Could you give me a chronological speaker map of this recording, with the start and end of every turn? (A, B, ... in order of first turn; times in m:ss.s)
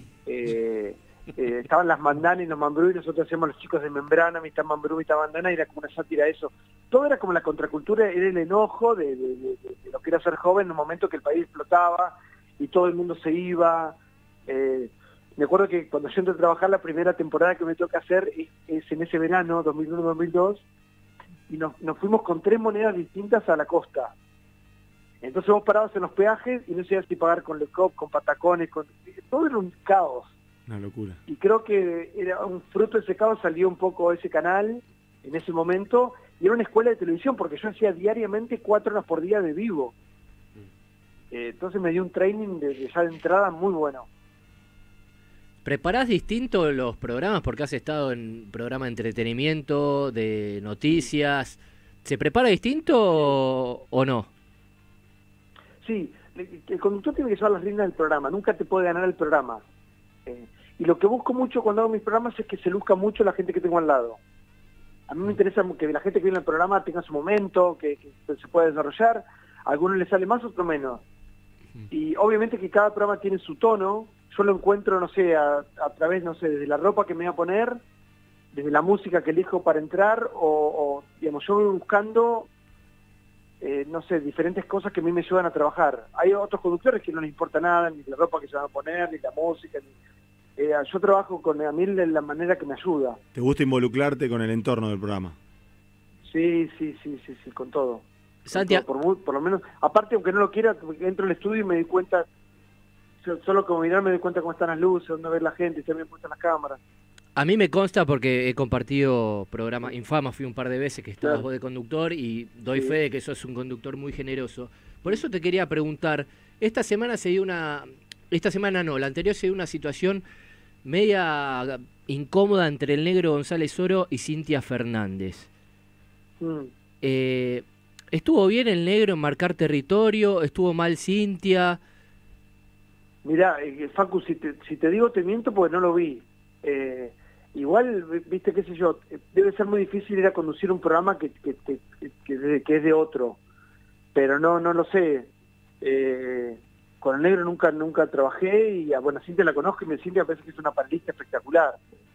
0:00.2-0:20.6 A
0:21.5-0:24.1 A
0:25.2-0:30.3 A
0:30.7-0:31.2 B
0:31.3-0:39.9 A
0:41.3-0:44.1 A
0:45.6-0:54.3 C
0:55.8-0:59.6 A
1:00.3-1:04.2 A
1:05.1-1:11.0 A
1:11.9-1:17.8 A
1:18.5-1:22.5 A
1:23.6-1:29.9 A
1:30.6-1:33.2 A
1:33.3-1:35.4 B
1:36.3-1:42.3 A
1:38.4-1:38.8 C
1:43.2-1:46.8 A
1:47.4-2:00.2 C
2:00.8-2:05.5 C
2:06.4-2:06.7 A
2:07.0-2:11.8 C
2:13.2-2:23.4 A
2:24.1-2:25.3 A
2:25.8-2:31.8 A